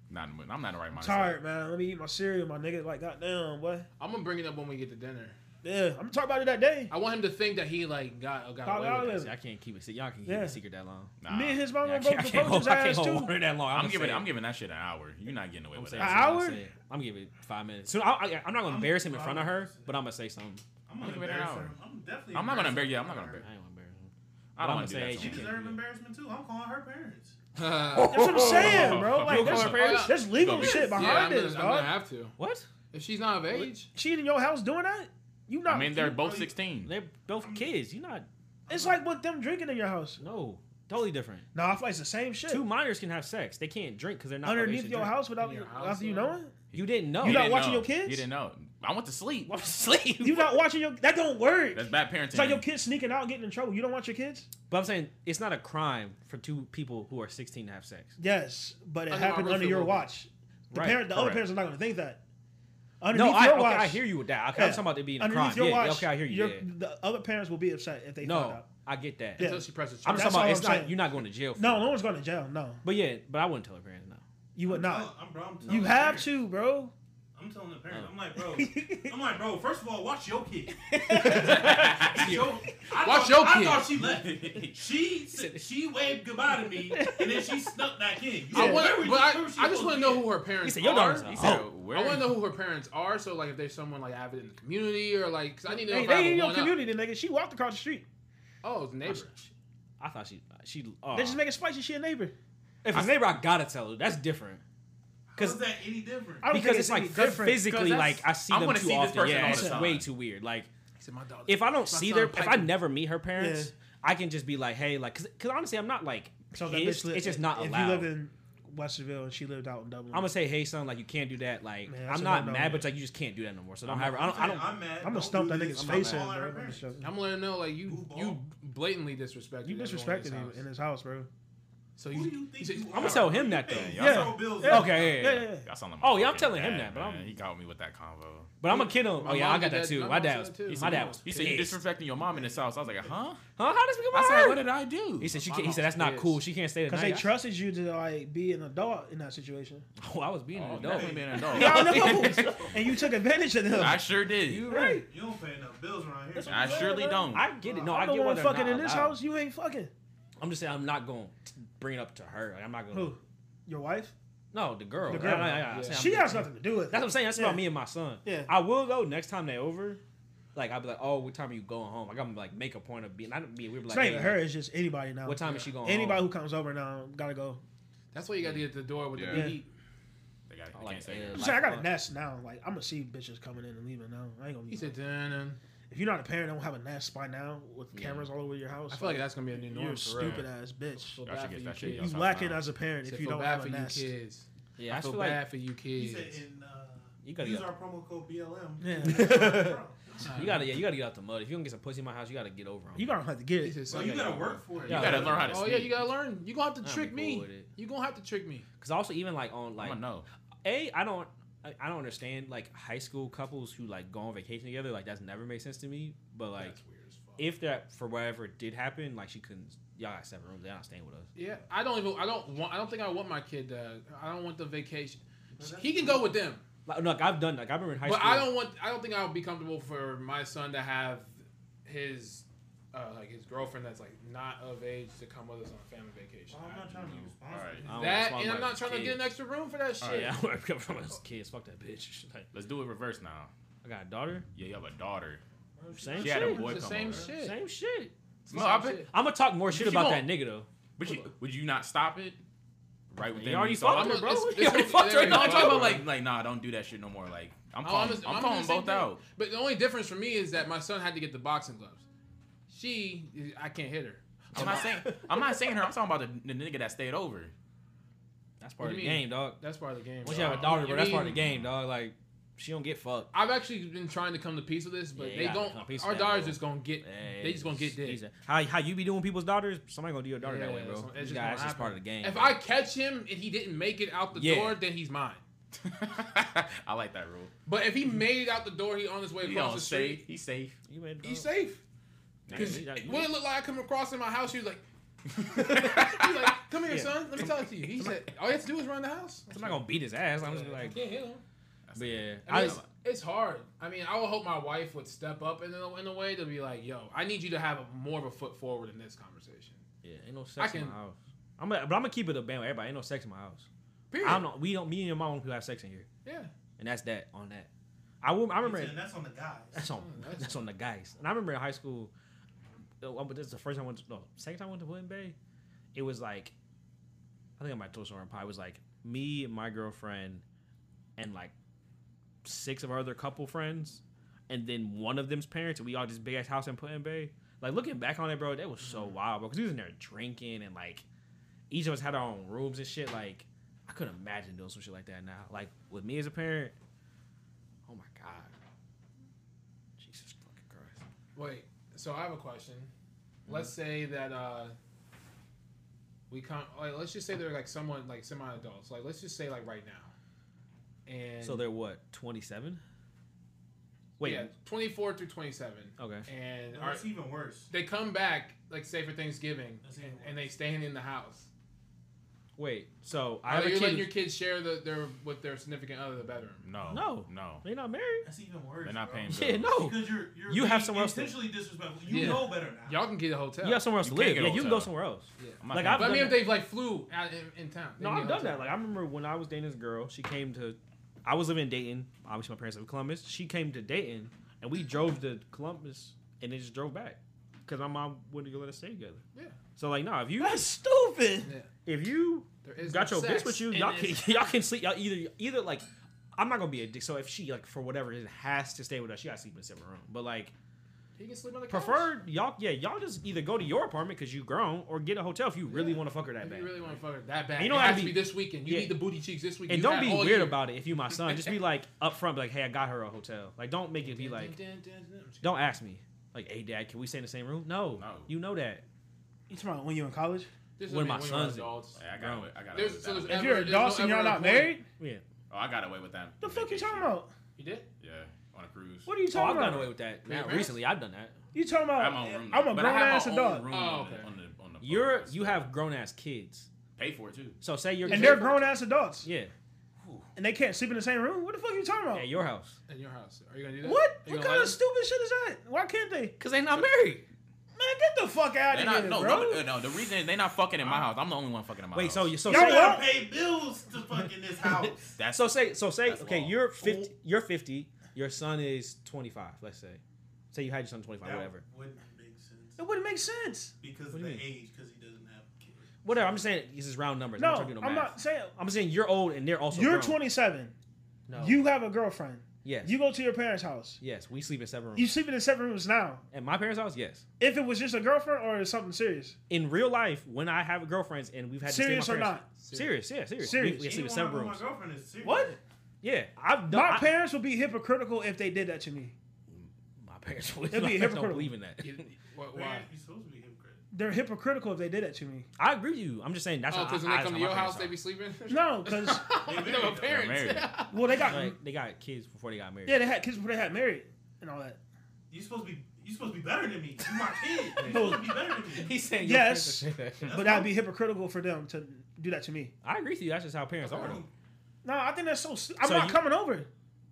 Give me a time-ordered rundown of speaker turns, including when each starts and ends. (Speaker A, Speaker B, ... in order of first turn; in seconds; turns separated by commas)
Speaker A: 0.1-1.4, Speaker B: 0.9-3.9, Speaker C: 4.0-5.4, Speaker B: 5.6-6.9, Speaker C: 6.9-9.2, Speaker B: 8.7-9.3, Speaker D: 8.9-11.2, Speaker B: 10.3-10.6, Speaker A: 11.2-11.7, Speaker B: 11.3-13.3, Speaker D: 11.8-14.3, Speaker A: 13.7-16.3, Speaker D: 15.7-20.6, Speaker B: 16.0-16.6, Speaker E: 18.6-19.9, Speaker E: 20.9-23.4, Speaker A: 21.0-21.7, Speaker A: 22.3-23.4, Speaker D: 23.4-25.8, Speaker A: 24.6-25.4, Speaker E: 25.1-27.4, Speaker C: 27.6-29.0, Speaker D: 27.9-30.2, Speaker B: 28.0-31.9, Speaker A: 28.4-31.3, Speaker C: 29.5-32.4, Speaker D: 32.4-32.7, Speaker C: 32.9-33.9, Speaker B: 33.9-36.2, Speaker A: 35.6-36.9, Speaker E: 36.2-36.6, Speaker D: 36.8-38.3, Speaker E: 37.4-37.7, Speaker E: 38.7-39.0, Speaker B: 38.7-40.2, Speaker D: 40.2-41.5, Speaker B: 41.5-42.7, Speaker D: 42.5-45.2, Speaker B: 44.4-46.5, Speaker C: 45.4-46.4, Speaker D: 46.7-47.5, Speaker A: 46.7-49.6, Speaker B: 47.2-48.3, Speaker D: 49.5-50.6, Speaker B: 50.2-54.5, Speaker A: 51.7-52.6, Speaker D: 54.7-58.1, Speaker B: 58.2-62.2, Speaker C: 59.1-60.1, Speaker D: 60.7-61.5, Speaker B: 63.0-68.7, Speaker D: 63.1-66.7, Speaker D: 68.2-69.5, Speaker B: 69.4-71.0, Speaker C: 69.4-70.4, Speaker D: 70.0-71.9, Speaker B: 71.6-72.8, Speaker D: 72.8-74.2, Speaker B: 74.5-76.9, Speaker E: 74.7-76.4, Speaker D: 75.6-76.1, Speaker E: 77.3-90.3, Speaker B: 78.5-79.2, Speaker B: 80.7-81.9, Speaker D: 81.2-82.7, Speaker A: 81.3-82.4, Speaker C: 82.9-84.0, Speaker A: 84.0-84.8, Speaker D: 85.3-85.6, Speaker B: 86.9-87.6, Speaker B: 88.5-89.0, Speaker C: 88.5-96.8, Speaker D: 90.6-91.7, Speaker A: 91.2-92.4, Speaker B: 95.7-98.1, Speaker C: 98.6-99.5, Speaker D: 100.0-101.4, Speaker B: 101.1-102.3, Speaker D: 102.8-104.6, Speaker A: 102.9-103.2, Speaker E: 105.3-106.6, Speaker D: 105.4-105.6, Speaker B: 106.4-107.7, Speaker D: 106.5-110.7, Speaker A: 107.2-110.1, Speaker B: 109.4-109.8, Speaker C: 111.0-112.8, Speaker D: 111.5-118.1, Speaker B: 113.4-113.7, Speaker B: 116.5-120.3, Speaker D: 120.1-124.8, Speaker B: 121.9-122.9, Speaker E: 123.8-127.1, Speaker B: 125.0-127.0, Speaker D: 125.7-126.3, Speaker C: 127.0-130.6, Speaker E: 127.8-128.4, Speaker B: 129.6-131.3, Speaker C: 132.0-133.2, Speaker E: 132.1-135.1, Speaker D: 132.9-134.0, Speaker A: 133.0-138.5, Speaker B: 133.9-135.7, Speaker D: 134.5-135.5, Speaker D: 136.0-137.3, Speaker D: 138.6-141.8, Speaker C: 138.7-141.6, Speaker A: 140.7-143.4, Speaker E: 142.2-143.2, Speaker D: 143.6-147.4, Speaker A: 144.1-145.3, Speaker C: 145.4-146.4, Speaker B: 146.9-149.9, Speaker D: 150.0-153.1, Speaker A: 150.5-152.6, Speaker E: 150.7-151.7, Speaker B: 151.5-154.1, Speaker A: 153.7-154.7, Speaker D: 154.4-155.1, Speaker B: 154.7-155.1, Speaker E: 154.7-157.0, Speaker B: 156.3-159.9, Speaker A: 156.5-157.5, Speaker D: 157.3-159.2, Speaker D: 160.4-163.2, Speaker B: 162.9-164.1, Speaker D: 164.5-170.0, Speaker C: 165.0-166.2, Speaker B: 165.1-167.7, Speaker B: 168.2-168.5, Speaker D: 170.5-174.5, Speaker B: 173.9-177.6, Speaker D: 175.2-176.3, Speaker C: 175.4-175.7, Speaker C: 178.1-179.7, Speaker D: 179.2-179.4, Speaker B: 179.3-179.6, Speaker A: 180.5-181.5, Speaker D: 180.7-181.9, Speaker B: 181.3-185.0, Speaker C: 184.7-185.6, Speaker B: 185.9-191.2, Speaker D: 187.9-188.3, Speaker C: 188.9-190.5, Speaker C: 191.2-192.2, Speaker A: 191.2-192.7, Speaker B: 191.8-194.1, Speaker C: 193.1-196.4, Speaker D: 194.8-195.4, Speaker E: 195.9-200.6, Speaker D: 197.2-197.7, Speaker B: 198.8-199.6, Speaker D: 199.0-203.2, Speaker C: 200.2-200.6, Speaker B: 202.9-203.8, Speaker C: 203.6-204.5, Speaker E: 203.9-205.6, Speaker A: 204.3-205.9, Speaker D: 204.9-205.7, Speaker C: 205.1-208.7, Speaker D: 206.8-207.7, Speaker D: 208.8-210.0, Speaker A: 209.8-210.3, Speaker D: 210.6-216.8, Speaker C: 216.6-217.5, Speaker D: 217.4-221.3, Speaker C: 221.3-226.6, Speaker E: 225.6-226.3, Speaker D: 226.9-228.5, Speaker C: 228.0-236.8, Speaker E: 236.5-238.3, Speaker D: 236.9-237.3, Speaker A: 237.5-237.9, Speaker D: 237.9-239.2, Speaker C: 237.9-240.3, Speaker A: 240.0-240.3, Speaker D: 240.1-242.5, Speaker A: 242.5-243.5, Speaker D: 243.8-244.4, Speaker A: 244.5-245.4, Speaker E: 245.8-246.8, Speaker D: 245.9-248.1, Speaker C: 246.1-247.6, Speaker A: 246.2-247.3, Speaker C: 248.4-249.1, Speaker A: 248.5-249.1, Speaker D: 249.1-251.2, Speaker A: 249.7-250.3, Speaker A: 251.0-252.4, Speaker A: 253.1-254.5, Speaker D: 253.2-256.0, Speaker C: 253.8-256.0, Speaker A: 255.1-259.2, Speaker C: 257.8-262.0, Speaker C: 262.7-264.9, Speaker A: 264.5-267.5, Speaker D: 264.6-264.9, Speaker D: 268.6-269.6, Speaker C: 268.8-271.4, Speaker D: 270.2-273.3, Speaker A: 270.4-270.9, Speaker C: 273.3-278.2, Speaker D: 275.1-282.6, Speaker C: 280.4-285.4, Speaker D: 284.3-284.8, Speaker A: 285.8-287.5, Speaker C: 287.6-290.2, Speaker A: 289.4-290.8, Speaker D: 290.9-291.5, Speaker C: 291.2-291.8, Speaker A: 292.5-292.9, Speaker D: 292.5-293.4, Speaker C: 292.5-294.9, Speaker A: 295.3-296.4, Speaker C: 295.4-299.9, Speaker D: 296.9-297.2, Speaker D: 299.5-301.0, Speaker C: 300.4-301.4, Speaker A: 301.9-302.9, Speaker D: 301.9-302.8, Speaker C: 302.4-309.8, Speaker D: 310.0-313.7, Speaker C: 310.6-311.0, Speaker C: 314.1-314.4, Speaker D: 314.2-316.1, Speaker C: 316.2-316.5, Speaker D: 316.8-317.7, Speaker D: 318.2-319.0, Speaker E: 318.6-319.8, Speaker D: 319.7-322.1, Speaker C: 319.9-320.7, Speaker D: 323.0-325.4, Speaker D: 325.9-326.5, Speaker D: 327.6-330.4, Speaker D: 331.2-331.5, Speaker D: 332.4-341.1, Speaker C: 338.8-339.1, Speaker D: 341.7-346.7, Speaker D: 347.9-348.5, Speaker D: 350.0-351.0, Speaker C: 351.4-352.9, Speaker C: 353.5-354.8, Speaker C: 356.3-360.1, Speaker C: 361.1-361.7, Speaker D: 361.4-362.8, Speaker D: 364.2-364.5, Speaker C: 364.2-367.1, Speaker D: 366.0-366.3, Speaker E: 366.7-367.7, Speaker C: 367.7-371.5, Speaker E: 369.8-370.5, Speaker D: 372.6-374.1, Speaker C: 373.4-376.6, Speaker A: 376.6-377.6, Speaker D: 376.9-378.3, Speaker E: 378.2-383.1, Speaker A: 378.8-379.7, Speaker D: 379.3-381.4, Speaker C: 382.1-383.9, Speaker D: 382.1-382.4, Speaker D: 383.6-386.6, Speaker A: 384.0-384.9, Speaker C: 385.4-388.7, Speaker A: 385.6-386.4, Speaker D: 388.0-399.2, Speaker D: 399.8-400.7, Speaker B: 400.4-401.5, Speaker C: 401.4-401.7, Speaker D: 401.9-410.5, Speaker C: 402.6-404.4, Speaker C: 411.2-412.1, Speaker D: 411.7-417.0, Speaker C: 415.7-420.6, Speaker D: 417.6-419.0, Speaker D: 419.7-424.6, Speaker C: 424.0-425.7, Speaker D: 425.4-428.9, Speaker A: 427.9-428.3, Speaker B: 429.5-430.5, Speaker C: 430.8-432.0, Speaker D: 430.9-432.5, Speaker A: 432.0-433.4, Speaker C: 432.7-434.8, Speaker B: 433.3-434.9, Speaker D: 435.0-435.2, Speaker A: 435.5-437.2, Speaker B: 436.4-437.3, Speaker C: 437.6-437.9, Speaker A: 438.0-439.1, Speaker B: 439.1-440.0, Speaker D: 439.3-441.4, Speaker C: 440.3-440.7, Speaker B: 441.5-443.7, Speaker A: 441.9-445.7, Speaker C: 443.7-444.3, Speaker D: 444.8-446.7, Speaker A: 446.9-447.6, Speaker D: 447.6-448.7, Speaker B: 448.1-449.3, Speaker C: 448.1-448.4, Speaker D: 449.2-449.5, Speaker A: 450.0-450.3, Speaker B: 450.4-452.3, Speaker D: 452.1-452.8, Speaker C: 452.9-454.8, Speaker B: 453.8-456.4, Speaker D: 456.4-457.2, Speaker B: 457.7-459.7, Speaker A: 458.7-462.4, Speaker E: 460.8-461.1, Speaker D: 461.9-463.0, Speaker E: 462.4-465.1, Speaker B: 462.4-463.1, Speaker D: 464.6-470.0, Speaker A: 465.2-466.8, Speaker D: 470.5-471.6, Speaker E: 471.2-472.8, Speaker B: 472.8-473.7, Speaker E: 473.8-476.4, Speaker D: 474.1-474.4, Speaker D: 476.0-480.2, Speaker B: 477.4-478.5, Speaker B: 479.7-480.7, Speaker D: 481.3-481.6, Speaker B: 481.4-484.0, Speaker D: 482.6-483.0, Speaker D: 484.0-485.1, Speaker B: 484.9-486.2, Speaker D: 486.3-487.2, Speaker B: 487.4-489.4, Speaker D: 489.5-494.6, Speaker B: 491.6-492.4, Speaker C: 492.6-493.0, Speaker B: 493.4-494.0, Speaker E: 493.6-495.6, Speaker B: 495.2-495.6, Speaker D: 496.0-497.1, Speaker B: 496.7-499.1, Speaker D: 499.5-502.0, Speaker B: 500.7-501.5, Speaker C: 501.8-502.9, Speaker E: 502.5-503.8, Speaker B: 503.9-505.5, Speaker D: 505.6-507.9, Speaker C: 506.7-511.1, Speaker B: 508.5-509.3, Speaker E: 509.4-510.4, Speaker A: 509.7-510.7, Speaker B: 510.9-511.6, Speaker D: 511.3-513.0, Speaker B: 512.9-514.8, Speaker E: 515.3-519.0, Speaker D: 517.8-518.1, Speaker B: 517.8-518.4, Speaker D: 518.7-520.4, Speaker B: 519.2-522.7, Speaker E: 520.2-520.7, Speaker D: 522.8-524.2, Speaker E: 523.8-524.3, Speaker B: 524.8-526.7, Speaker D: 525.8-526.2